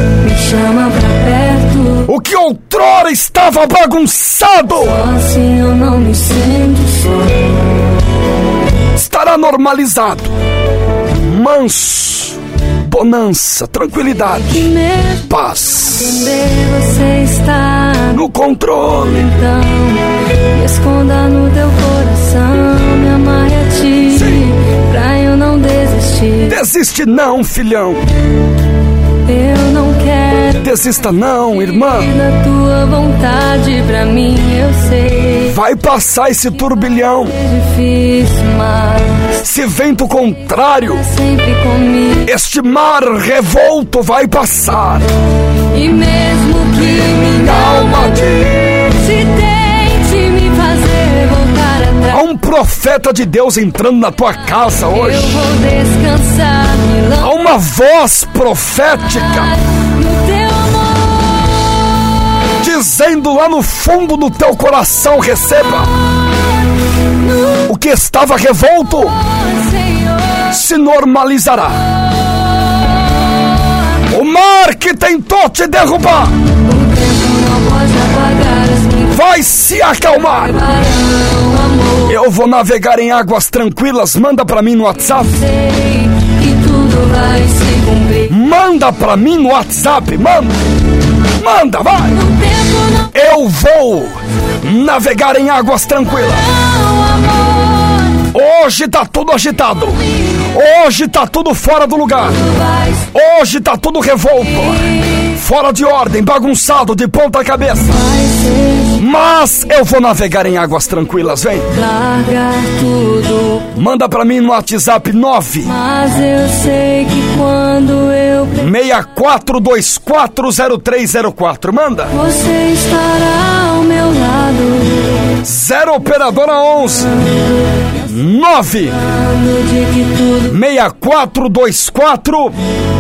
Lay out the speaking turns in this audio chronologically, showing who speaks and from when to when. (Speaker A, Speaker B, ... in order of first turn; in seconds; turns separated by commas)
Speaker A: 0.2-2.1, Speaker B: 2.1-5.0, Speaker A: 4.7-7.4, Speaker B: 9.0-10.3, Speaker B: 11.2-14.7, Speaker A: 14.5-15.3, Speaker B: 15.2-16.3, Speaker A: 15.9-18.2, Speaker B: 18.1-19.3, Speaker A: 19.1-26.6, Speaker B: 26.5-28.0, Speaker A: 29.2-30.7, Speaker B: 30.6-32.1, Speaker A: 31.5-35.6, Speaker B: 35.5-37.4, Speaker A: 37.1-39.4, Speaker B: 39.4-41.0, Speaker A: 41.0-42.3, Speaker B: 42.2-45.1, Speaker A: 45.7-52.2, Speaker B: 47.4-49.0, Speaker B: 52.1-55.4, Speaker A: 54.9-57.3, Speaker B: 57.2-59.5, Speaker A: 59.4-61.3, Speaker B: 62.6-65.9, Speaker B: 67.7-69.2, Speaker A: 69.4-70.4, Speaker B: 70.5-71.8, Speaker B: 74.1-76.3, Speaker A: 76.7-79.2, Speaker B: 79.1-80.6, Speaker A: 80.3-82.1, Speaker B: 82.1-85.4, Speaker A: 85.4-88.3, Speaker B: 88.3-90.6, Speaker B: 91.4-92.2, Speaker B: 93.1-96.5, Speaker B: 98.3-102.4, Speaker A: 102.6-103.0, Speaker B: 103.1-108.0, Speaker A: 107.9-109.0, Speaker B: 109.0-111.7, Speaker A: 111.7-113.7, Speaker B: 113.8-115.7, Speaker A: 115.6-118.7, Speaker B: 118.6-122.1, Speaker A: 122.1-125.1, Speaker B: 125.4-127.1, Speaker B: 128.0-129.0, Speaker A: 129.2-130.6, Speaker B: 130.5-132.6